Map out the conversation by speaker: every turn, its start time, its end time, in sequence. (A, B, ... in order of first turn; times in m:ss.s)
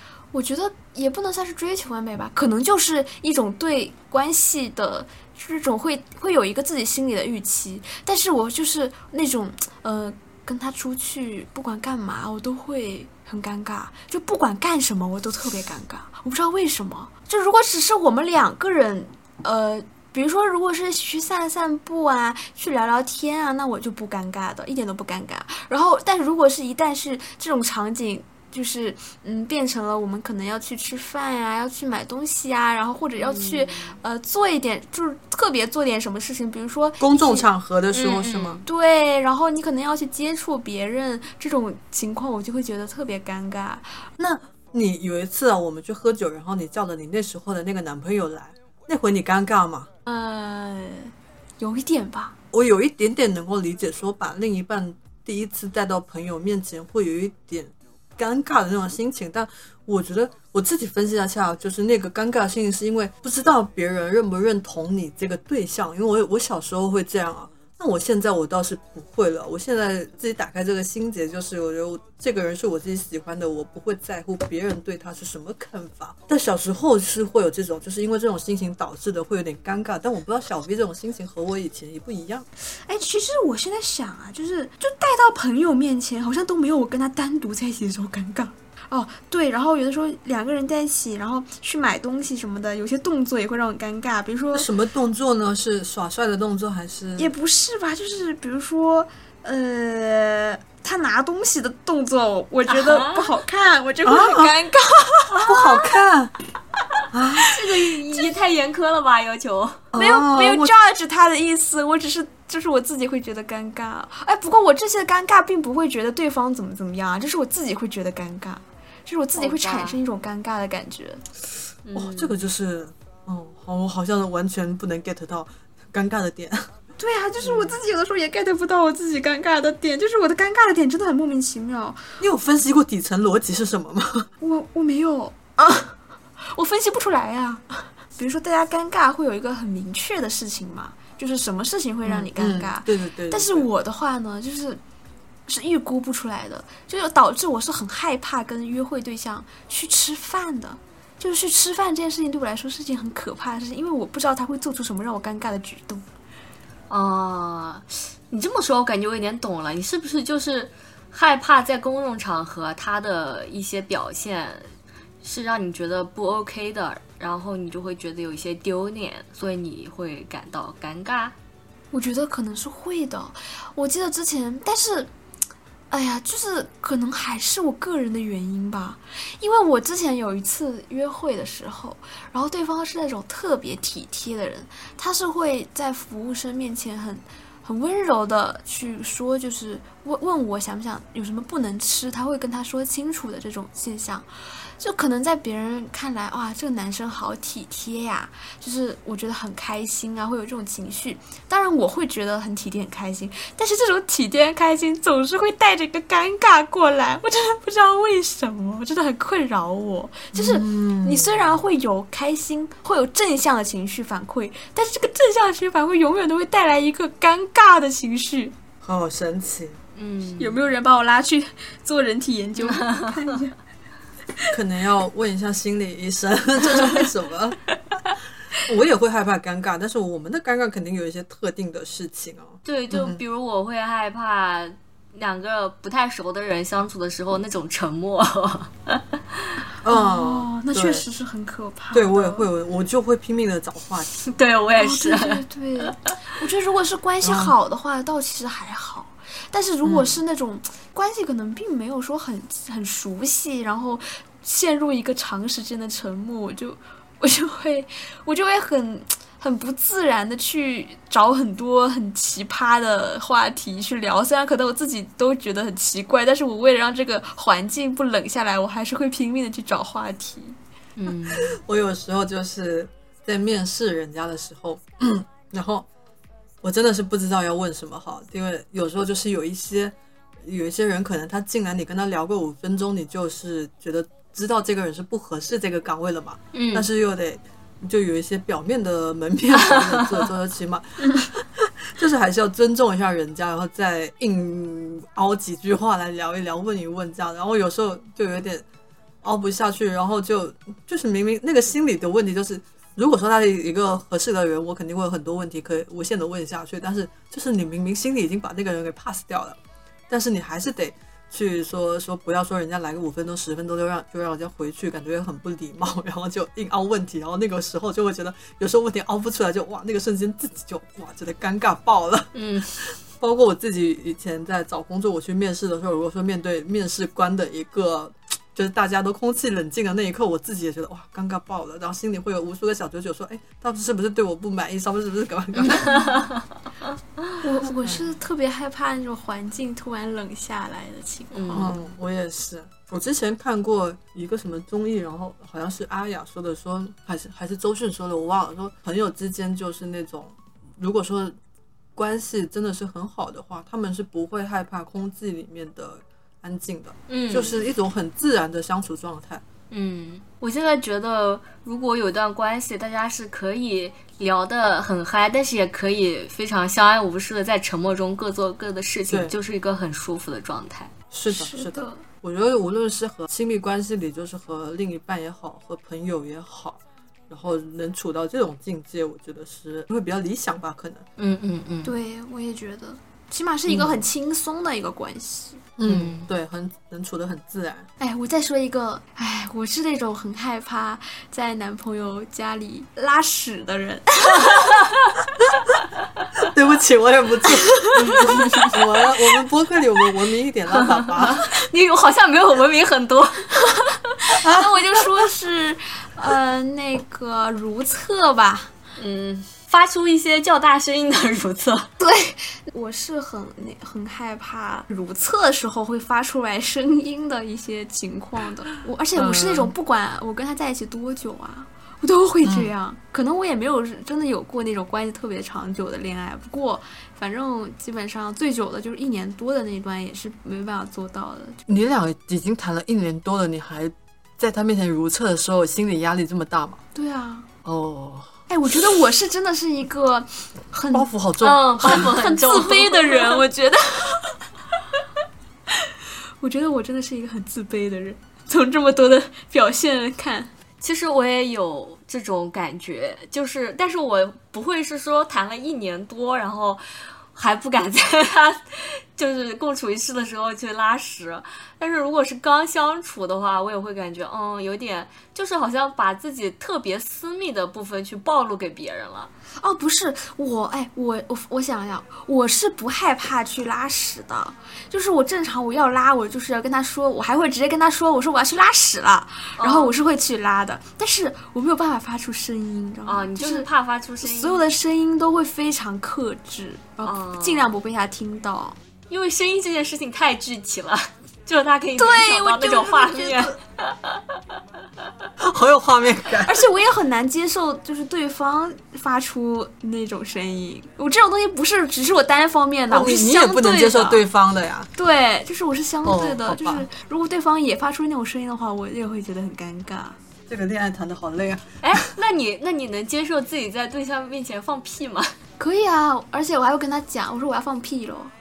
0:00.3-0:37.4 A
0:33.2-0:34.0 B
0:37.0-0:38.6 C
0:37.9-0:38.6 B
0:38.6-0:44.0 A
0:44.2-0:49.9 C
0:50.0-0:52.4 A
0:52.5-1:22.5 C
1:22.8-1:34.7 A
1:34.5-1:37.3 C
1:37.2-1:45.8 A
1:42.7-1:43.3 B
1:44.0-1:44.5 C
1:45.4-1:46.3 C
1:47.1-1:47.6 C
1:47.4-1:49.8 B
1:49.9-1:50.7 C
1:49.9-2:01.2 A
1:59.4-2:00.0 B
2:01.8-2:02.4 B
2:01.9-2:06.7 C
2:07.0-2:12.0 A
2:07.4-2:07.8 C
2:12.2-2:14.3 C
2:14.4-2:24.8 A
2:22.0-2:23.7 C
2:25.5-2:36.0 A
2:36.9-2:44.7 B
2:45.2-2:51.3 B
2:51.9-2:55.1 A
2:55.9-3:14.3 A
3:14.8-3:38.5 A
3:30.3-3:31.5 C
3:38.8-3:39.8 C
3:40.0-3:40.6 B
3:40.4-3:43.6 A
3:42.6-3:43.1 B
3:44.5-3:47.6 C
3:48.6-3:53.2 C
3:52.6-3:59.0 B
3:59.8-4:01.0 C
3:59.9-4:02.4 A
4:01.9-4:04.2 C
4:04.3-4:05.9 B
4:04.8-4:30.6 A
4:07.2-4:07.5 C
4:09.8-4:10.2 C
4:31.0-4:31.5 B
4:31.3-4:35.9 C
4:36.6-4:58.6 C
4:46.5-4:46.8 B
4:59.2-5:09.6 C
5:10.1-5:36.1 C
5:22.3-5:22.8 B
5:35.5-5:36.4 B
5:37.4-5:41.8 A
5:41.3-5:41.7 B
5:41.5-5:51.4 C
5:52.0-5:59.4 C
5:57.1-5:57.6 B
5:59.7-6:10.9 B
6:09.1-6:09.3 C
6:11.1-6:21.0 C
6:11.3-6:12.0 A
6:21.2-6:21.9 B
6:21.8-6:25.6 A
6:23.7-6:24.0 C
6:25.8-6:27.9 C
6:25.8-6:26.3 B
6:28.0-6:34.6 A
6:36.5-6:41.5 C
6:37.9-6:38.8 B
6:40.9-6:43.5 B
6:44.2-6:48.7 A
6:44.4-6:44.7 C
6:49.0-6:51.9 B
6:52.0-7:11.6 A
6:59.2-6:59.7 C
7:02.4-7:02.7 C
7:11.7-7:16.8 C
7:16.9-7:17.5 A
7:17.6-7:18.3 C
7:18.5-7:21.1 A
7:20.9-7:22.1 C
7:21.4-7:23.4 B
7:21.8-7:24.4 A
7:26.4-7:30.5 A
7:30.8-7:36.8 B
7:37.3-7:49.3 B
7:49.6-8:03.7 A
7:59.6-7:59.9 B
8:03.1-8:04.6 B
8:04.2-8:08.8 A
8:07.0-8:07.7 B
8:09.1-8:14.2 B
8:12.0-8:13.5 A
8:15.4-8:16.5 C
8:16.4-8:24.2 A
8:22.9-8:24.9 C
8:24.9-8:30.2 A
8:26.0-8:26.9 C
8:30.5-8:32.0 C
8:31.8-8:35.3 B
8:35.6-8:38.3 A